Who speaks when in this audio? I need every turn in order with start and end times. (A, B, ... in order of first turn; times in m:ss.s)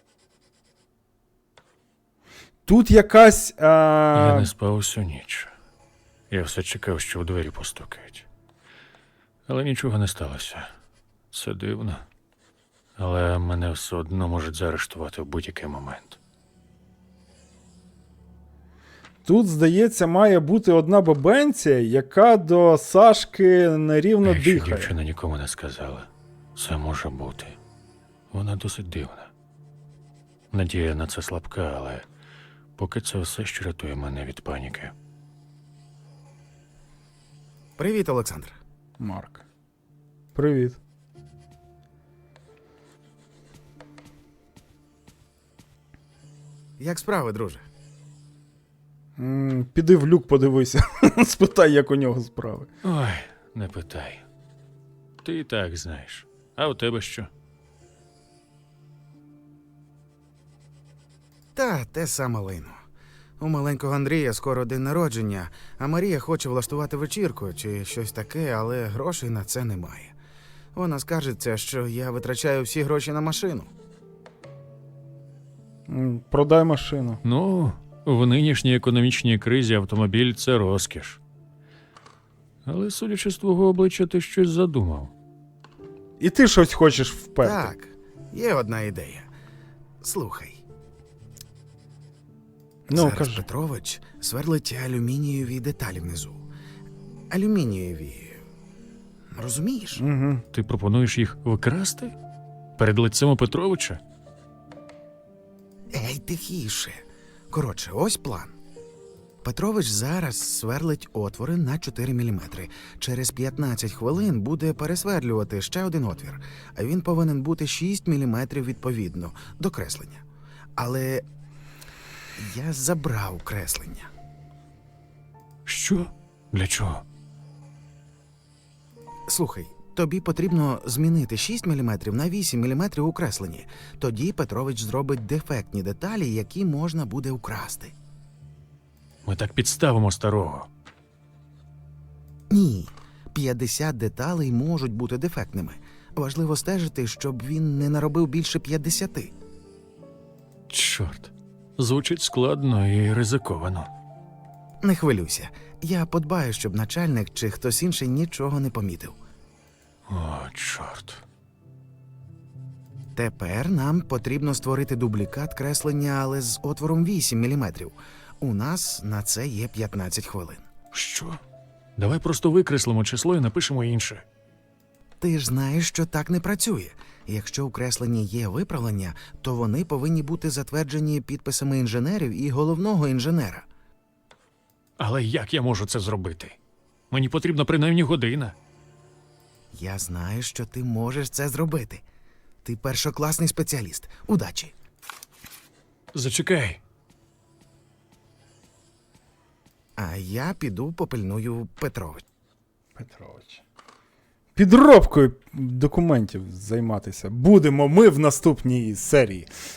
0:02.6-0:04.5 A
0:04.1-0:05.5 B
0:06.3-0:08.2 B
0:09.5-0:10.7 B
0:11.3-0:12.0 B
0:13.0-0:16.2 B
0:19.2-0:24.9 A
0:24.2-0:27.6 B
0:28.3-0:29.3 B
0:30.5-0:32.1 B
0:32.8-0:34.9 B
0:37.8-0:38.6 C
0:39.0-0:39.4 A
0:40.3-0:40.8 A
0:46.8-0:47.6 C
0:49.2-0:52.7 A
0:52.8-0:54.2 B
0:55.2-0:57.3 B
1:01.5-1:02.8 C
1:03.4-1:10.1 C
1:10.7-1:13.7 C
1:15.9-1:17.2 A
1:17.2-1:21.2 B
1:22.6-1:25.1 B
1:26.2-1:27.7 A
1:27.4-1:29.3 C
1:30.0-1:30.6 C
1:32.9-1:33.5 A
1:32.9-1:36.4 C
1:37.3-1:38.4 C
1:39.3-1:40.0 C
1:40.0-1:40.4 A
1:40.5-1:42.1 B
1:42.8-1:44.0 B
1:45.9-1:48.5 C
1:49.4-2:00.2 C
2:00.8-2:01.2 C
2:02.4-2:04.1 C
2:05.6-2:07.0 B
2:09.3-2:17.9 C
2:19.2-2:20.7 B
2:22.5-2:29.3 C
2:30.7-2:33.9 B
2:34.8-2:39.2 C
2:40.1-2:41.2 B
2:43.1-2:50.6 C
2:50.9-2:51.4 B
2:52.0-2:54.2 B
2:55.2-3:03.6 C
3:05.0-3:06.6 B
3:07.1-3:08.6 B
3:09.7-3:12.0 C
3:12.6-3:14.7 C
3:16.1-3:16.8 B
3:20.0-3:22.2 C
3:23.0-3:23.6 A
3:24.5-3:29.5 A